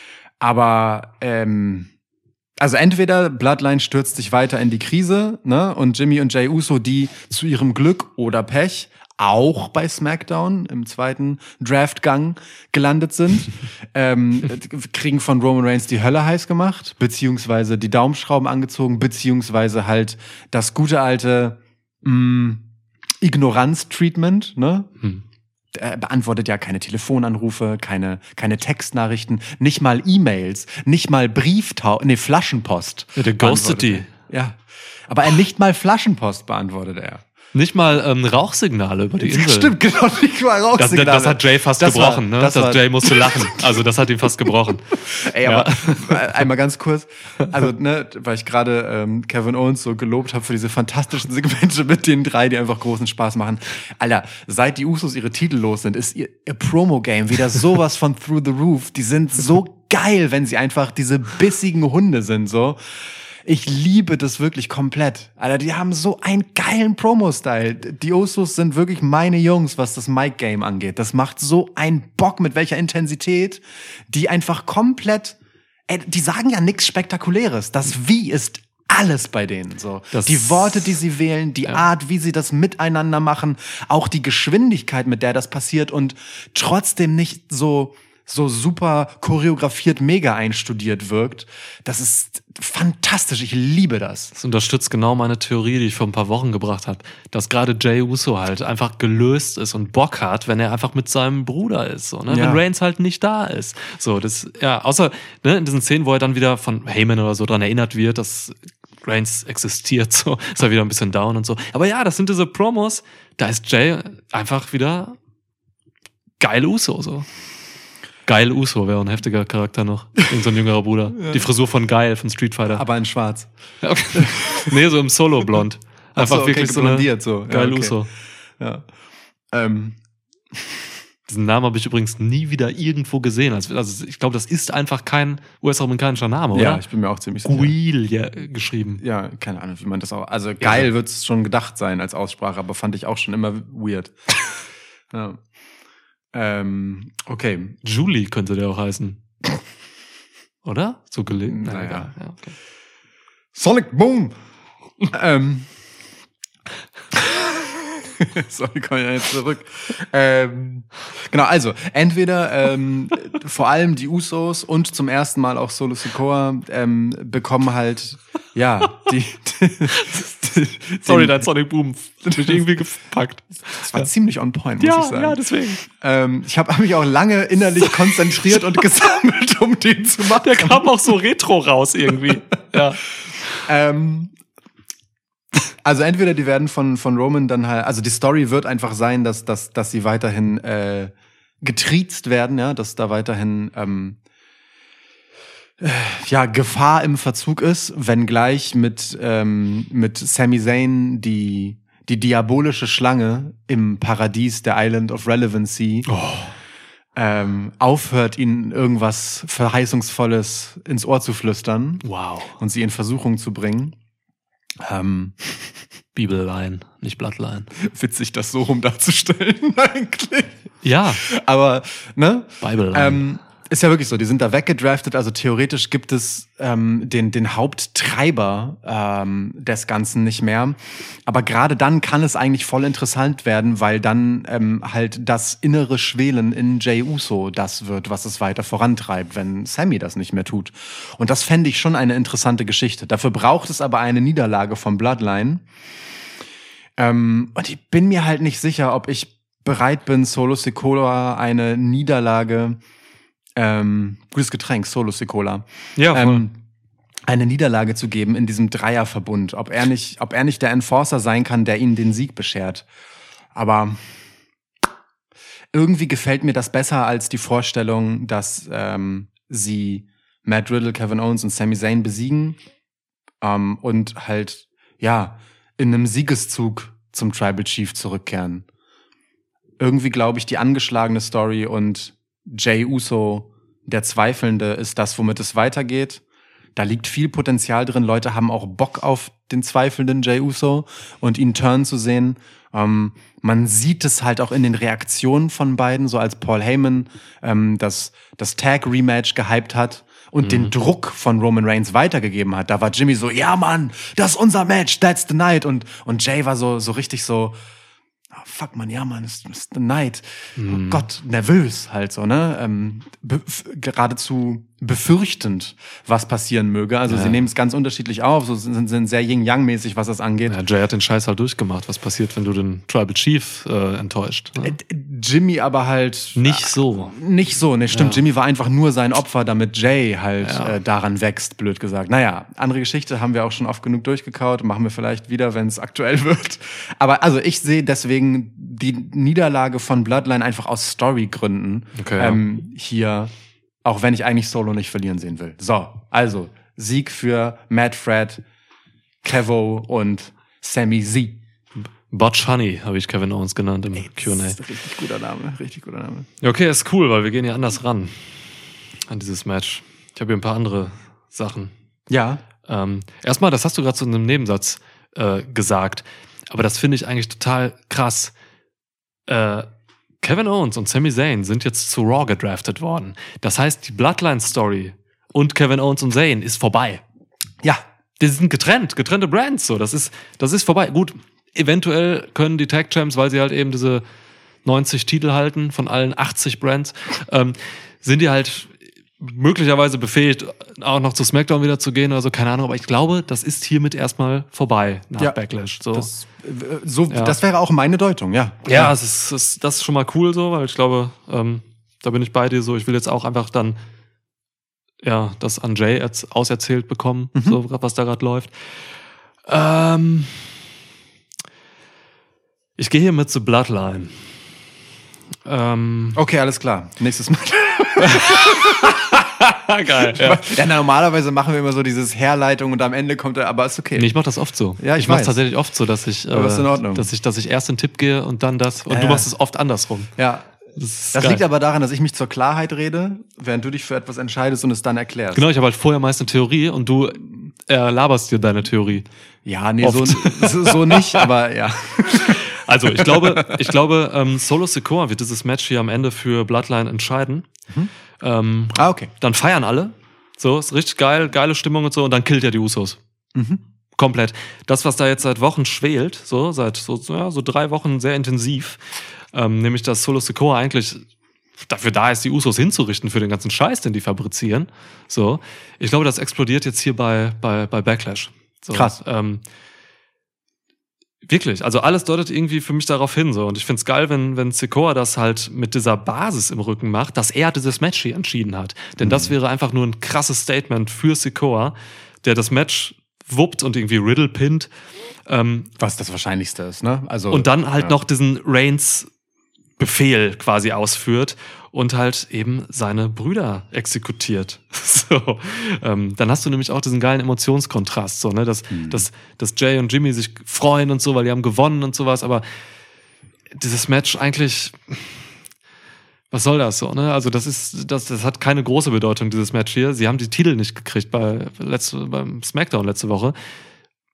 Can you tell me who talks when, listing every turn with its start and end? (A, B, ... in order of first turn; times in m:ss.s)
0:00.4-0:01.9 A
0:02.6-0:22.6 A
0:23.2-0:24.9 A
0:25.7-0:37.2 A
0:33.2-0:34.1 B
0:37.5-0:39.8 B
0:39.2-0:43.7 A
0:40.8-0:46.3 B
0:45.1-1:02.8 A
1:03.4-1:15.4 A
1:15.9-1:34.3 A
1:20.1-1:20.8 B
1:34.4-1:55.2 B
1:42.3-1:42.6 A
1:56.4-1:57.3 B
1:58.3-2:02.8 B
2:01.2-2:01.5 A
2:02.7-2:03.5 A
2:03.8-2:08.1 B
2:04.1-2:04.7 A
2:06.2-2:08.0 A
2:08.6-2:08.8 A
2:09.5-2:10.0 A
2:11.3-2:16.8 B
2:16.5-2:17.7 A
2:17.4-2:19.0 B
2:19.0-2:24.2 A
2:20.6-2:20.9 B
2:25.1-2:25.4 A
2:26.3-2:27.8 A
2:27.8-2:29.2 B
2:30.6-2:32.5 B
2:31.5-2:32.1 A
2:33.5-2:34.4 A
2:35.1-2:35.7 A
2:37.1-2:51.5 A
2:51.0-2:54.1 B
2:52.3-2:52.6 A
2:53.8-3:00.9 A
2:54.8-2:55.8 B
3:00.4-3:03.0 B
3:03.6-3:04.3 A
3:05.8-3:14.2 A
3:15.8-3:26.1 A
3:26.1-3:26.5 B
3:27.2-3:32.0 A
3:32.0-3:32.5 B
3:32.6-3:34.0 A
3:34.8-3:35.8 A
3:36.2-3:37.7 B
3:37.8-3:40.6 A
3:40.8-3:41.2 B
3:41.2-4:05.6 A
3:42.6-3:43.4 B
4:07.0-4:12.8 A
4:13.6-4:16.6 A
4:16.0-4:16.5 B
4:17.3-4:22.8 A
4:23.5-4:24.1 A
4:25.7-4:32.6 A
4:33.4-4:38.7 A
4:39.8-4:46.2 A
4:46.8-5:07.6 A
5:00.4-5:00.7 B
5:08.3-5:20.6 A
5:10.6-5:11.0 B
5:17.1-5:17.5 B
5:20.5-5:24.8 B
5:24.6-5:43.3 A
5:26.4-5:27.2 B
5:27.9-5:28.2 B
5:30.4-5:30.8 B
5:42.0-5:42.4 B
5:43.8-5:48.4 A
5:49.2-5:51.4 A
5:52.1-5:54.6 B
5:54.0-5:56.3 A
5:56.4-5:58.4 B
5:59.1-6:01.7 B
6:02.1-6:02.4 A
6:02.6-6:08.3 B
6:09.3-6:09.7 B
6:10.2-6:17.0 B
6:18.2-6:24.0 B
6:24.6-6:36.1 B
6:35.9-6:38.9 A
6:37.1-6:37.4 B
6:38.7-6:43.8 B
6:45.0-6:48.5 B
6:49.5-6:50.6 B
6:52.8-6:54.3 B
6:55.5-6:56.2 B
6:56.1-6:58.9 A
6:58.0-7:00.4 B
7:00.0-7:04.1 A
7:04.0-7:10.1 B
7:04.8-7:05.4 A
7:06.3-7:07.0 A
7:08.9-7:09.3 A
7:10.2-7:10.5 A
7:10.8-7:11.4 B
7:11.1-7:15.4 A
7:15.3-7:19.1 B
7:19.4-7:23.7 A
7:19.8-7:21.3 B
7:22.1-7:27.5 B
7:28.2-7:33.0 B
7:28.7-7:29.1 A
7:33.4-7:33.6 A
7:34.0-7:38.8 B
7:39.3-7:41.0 B
7:41.6-7:49.4 B
7:48.7-7:49.0 A
7:51.3-8:04.7 B
7:59.0-7:59.3 A
8:05.3-8:05.7 B
8:05.8-8:08.0 A
8:07.3-8:09.1 B
8:09.8-8:22.4 B
8:18.7-8:19.1 A
8:23.6-8:25.2 B
8:26.3-8:33.4 B